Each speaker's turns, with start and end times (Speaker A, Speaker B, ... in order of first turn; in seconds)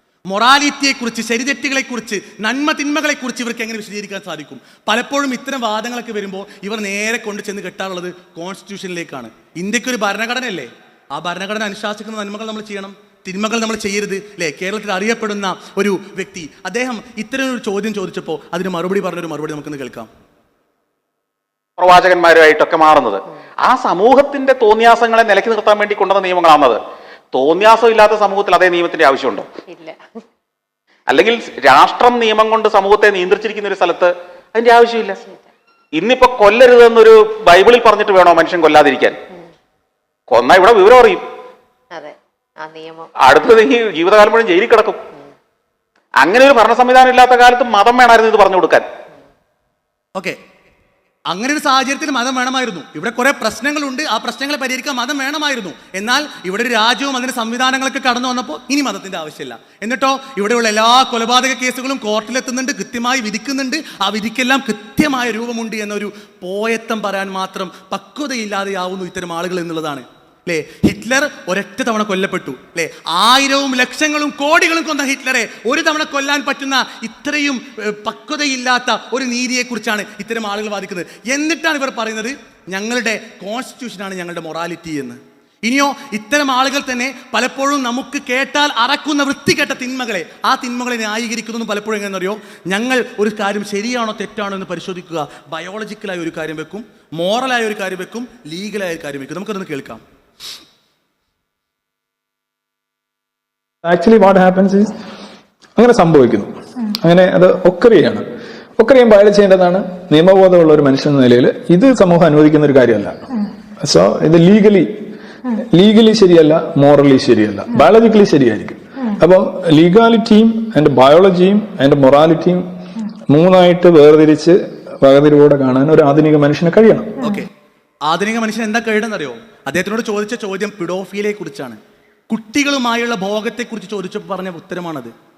Speaker A: 0.3-20.1, 51.3-100.0, 127.2-127.5, 128.1-131.8, 132.3-135.1
Speaker B: 21.8-26.8, 27.3-29.5, 31.1-35.2, 36.0-39.2, 40.3-41.2, 43.2-45.0, 46.2-48.9
Speaker C: 29.7-30.2, 35.2-35.5, 41.9-43.1
Speaker D: 103.8-104.9, 105.8-113.2, 113.8-114.9, 115.7-122.7, 123.3-127.2